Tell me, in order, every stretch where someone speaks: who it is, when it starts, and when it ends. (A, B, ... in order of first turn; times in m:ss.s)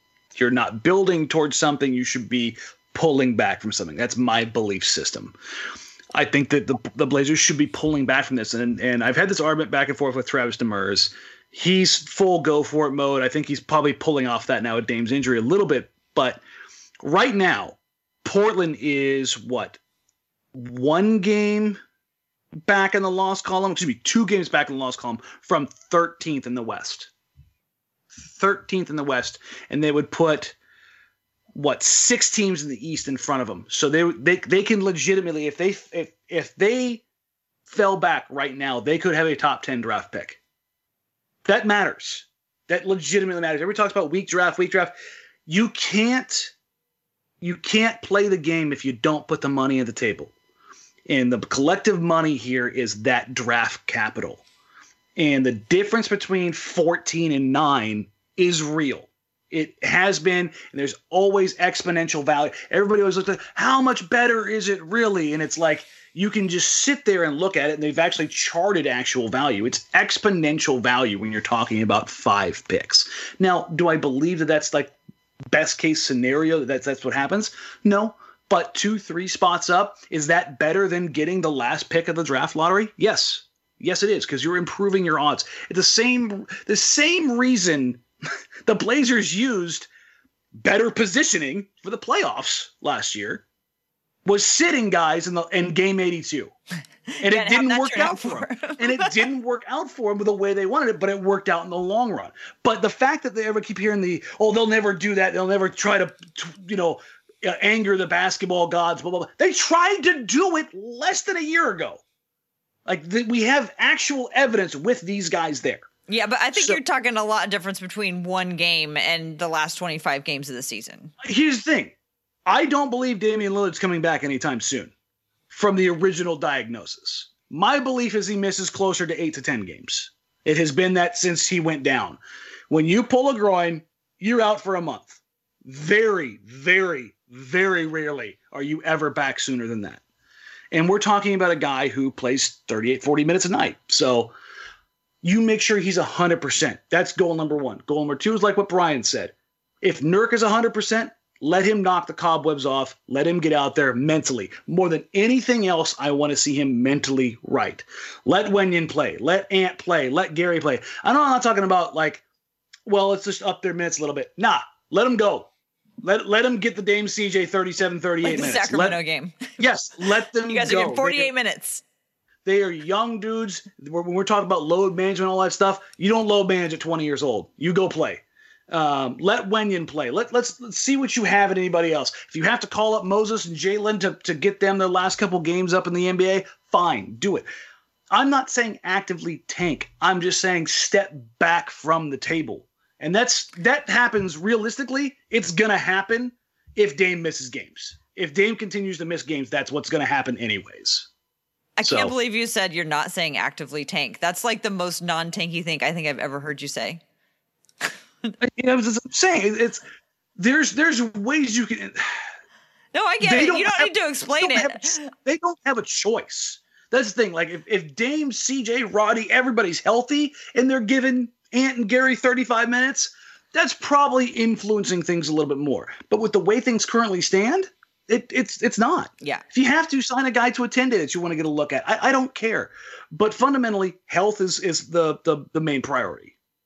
0:00.3-0:05.4 A
0:06.2-0:16.4 A
0:17.0-0:19.8 A
0:20.5-0:21.8 A
0:22.6-0:27.1 A
0:28.3-0:30.6 A
0:31.6-0:37.0 A
0:37.7-0:40.4 A
0:41.4-0:44.9 A
0:45.5-0:46.5 A
0:47.4-0:50.3 A
0:51.1-0:54.4 A
0:55.2-1:15.0 A
1:15.5-1:28.0 A
1:28.7-1:29.9 A
1:30.5-1:33.4 A
1:34.2-1:36.5 A
1:37.2-1:39.2 B
1:37.2-1:52.0 A
1:52.9-1:55.9 A
1:56.1-2:01.1 B
1:56.5-1:56.8 A
2:01.2-2:01.9 A
2:02.5-2:04.9 A
2:05.5-2:20.0 A
2:20.7-2:24.3 A
2:25.2-2:42.2 A
2:42.9-2:45.5 A
2:46.0-2:49.0 A
2:48.2-2:49.6 B
2:49.6-2:51.3 A
2:50.2-2:51.8 B
2:52.4-3:07.5 A
3:08.1-3:21.1 A
3:21.8-3:27.0 B
3:21.8-3:22.1 A
3:27.8-3:28.3 B
3:28.4-3:29.8 A
3:30.4-3:32.2 A
3:32.9-3:35.1 B
3:33.2-3:56.3 A